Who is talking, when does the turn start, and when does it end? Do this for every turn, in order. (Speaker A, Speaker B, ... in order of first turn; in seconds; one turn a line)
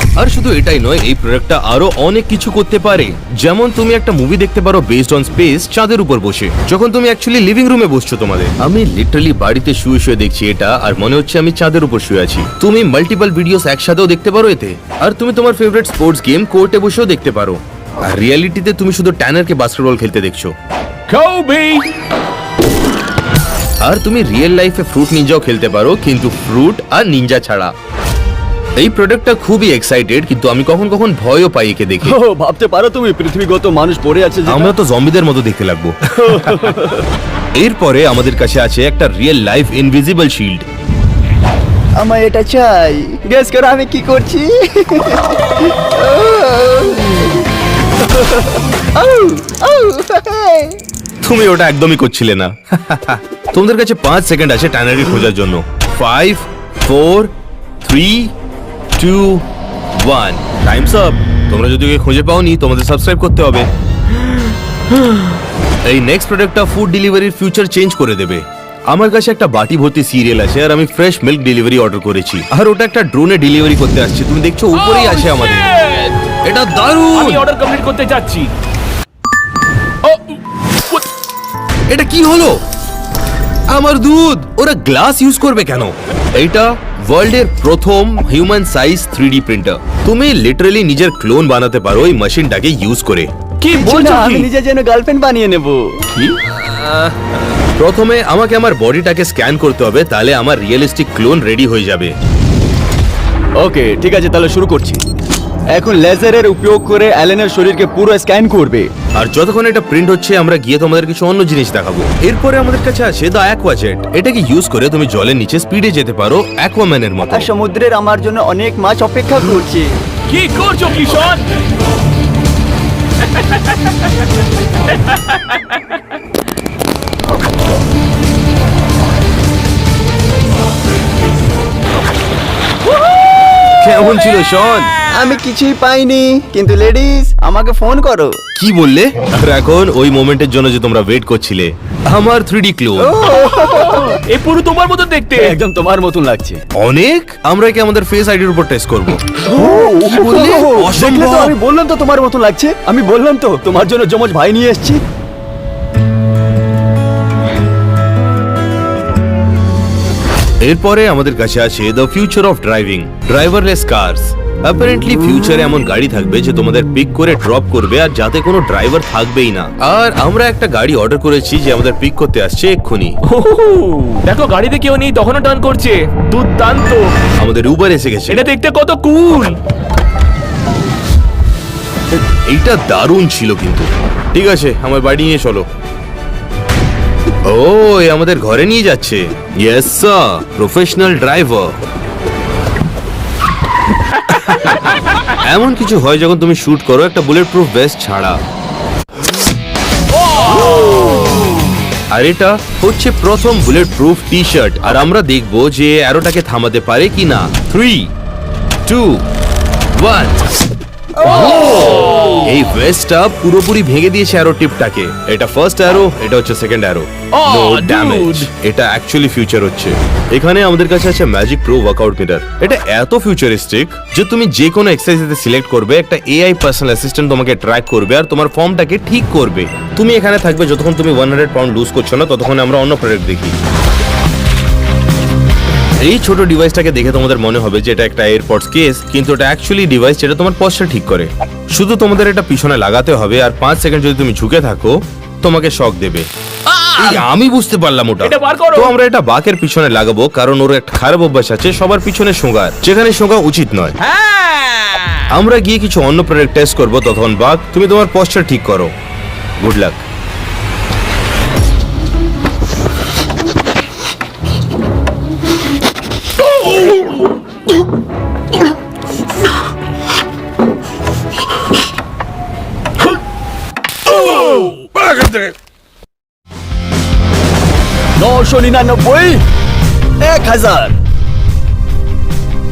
Speaker A: 0.1-20.5
Speaker B: 21.1-21.9
Speaker A: 23.8-27.7
Speaker A: 28.8-32.2
Speaker C: 32.0-34.7
Speaker A: 34.5-36.5
Speaker C: 36.2-37.1
Speaker A: 37.5-40.7
Speaker C: 42.0-47.4
Speaker C: 48.0-50.8
Speaker A: 51.2-58.3
Speaker A: 59.0-59.5
Speaker A: 60.0-63.7
Speaker A: 65.8-75.7
Speaker B: 74.7-76.2
Speaker A: 76.4-77.4
Speaker B: 77.1-78.5
Speaker B: 80.0-80.4
Speaker A: 81.9-82.6
Speaker A: 83.7-93.3
Speaker B: 93.6-94.5
Speaker C: 93.7-96.3
Speaker A: 96.7-97.1
Speaker A: 97.8-102.1
Speaker C: 103.6-105.0
Speaker C: 105.7-108.9
Speaker A: 109.1-117.5
Speaker C: 117.3-119.9
Speaker B: 120.3-121.4
Speaker A: 133.8-134.9
Speaker C: 135.1-138.4
Speaker A: 138.6-143.2
Speaker C: 143.0-144.2
Speaker B: 144.2-145.6
Speaker C: 145.3-146.6
Speaker A: 146.7-151.5
Speaker C: 149.5-155.0
Speaker A: 160.6-173.2
Speaker B: 173.2-177.1
Speaker A: 177.4-178.4
Speaker B: 178.3-179.6
Speaker A: 182.5-185.7
Speaker A: 187.4-191.8
Speaker A: 194.3-194.8
Speaker A: 195.3-198.4
Speaker B: 200.2-201.4
Speaker A: 202.1-208.1
Speaker A: 208.8-209.2
Speaker A: 209.9-210.5
Speaker C: 211.2-212.1
Speaker B: 211.2-212.5
Speaker A: 212.3-233.6
Speaker B: 217.3-218.5
Speaker A: 236.0-246.3
Speaker B: 246.7-247.2
Speaker A: 247.0-254.0
Speaker B: 248.2-248.9
Speaker B: 254.0-255.2
Speaker A: 255.3-258.9
Speaker A: 259.6-260.0
Speaker C: 278.2-279.4
Speaker C: 280.2-281.0